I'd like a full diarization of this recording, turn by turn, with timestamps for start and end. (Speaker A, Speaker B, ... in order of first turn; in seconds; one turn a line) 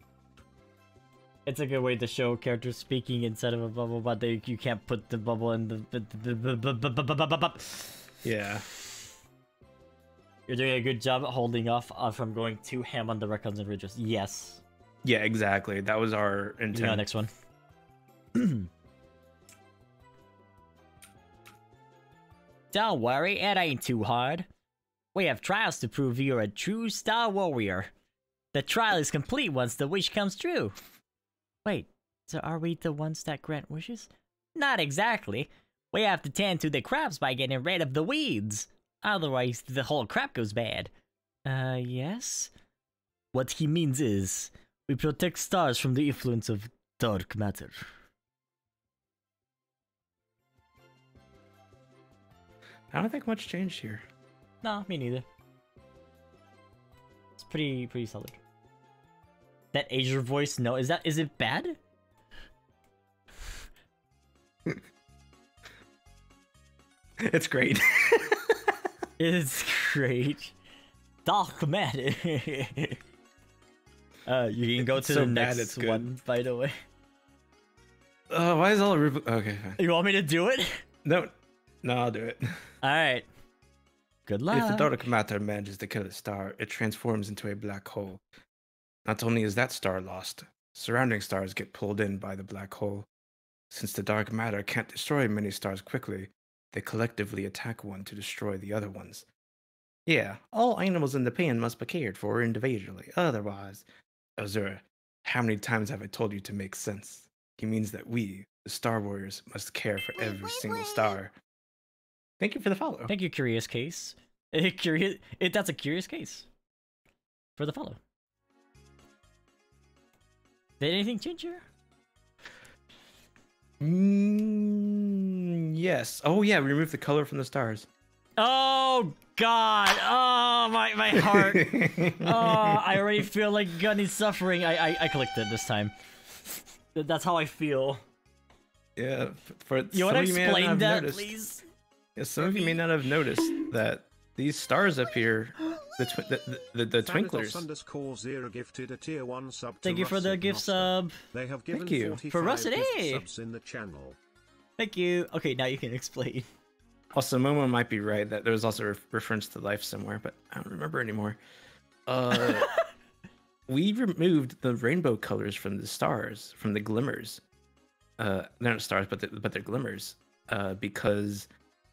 Speaker A: 1.5-8.0
Speaker B: 8.2-8.7
Speaker A: 10.5-14.6
Speaker B: 15.0-17.0
Speaker A: 16.7-17.3
Speaker A: 18.4-18.7
Speaker A: 22.7-24.5
Speaker A: 25.1-27.9
Speaker A: 28.5-30.8
Speaker A: 31.6-40.9
Speaker A: 41.5-42.5
Speaker A: 43.3-47.9
Speaker B: 52.9-54.0
Speaker A: 54.6-55.2
Speaker A: 57.4-58.4
Speaker A: 59.7-61.8
Speaker B: 67.2-68.6
Speaker A: 69.2-70.5
Speaker A: 71.2-73.0
Speaker A: 74.3-76.7
Speaker B: 74.8-76.1
Speaker B: 78.3-79.8
Speaker A: 79.8-80.8
Speaker B: 81.0-82.6
Speaker A: 82.8-83.3
Speaker A: 84.3-84.9
Speaker B: 84.5-88.2
Speaker B: 89.0-93.1
Speaker B: 93.7-99.3
Speaker B: 100.1-103.9
Speaker B: 104.4-111.3
Speaker B: 112.4-113.1
Speaker A: 113.1-116.5
Speaker A: 117.6-118.0
Speaker A: 120.8-121.6
Speaker B: 123.8-127.9
Speaker A: 128.4-135.9
Speaker B: 131.1-133.2
Speaker A: 136.5-138.0
Speaker B: 139.0-141.3
Speaker A: 139.9-141.6
Speaker B: 142.2-147.7
Speaker C: 147.0-154.2
Speaker A: 149.8-151.2
Speaker B: 151.7-152.2
Speaker A: 152.3-153.2
Speaker A: 154.8-156.5
Speaker B: 157.1-161.4
Speaker B: 162.1-162.7
Speaker B: 163.7-167.4
Speaker B: 168.2-171.5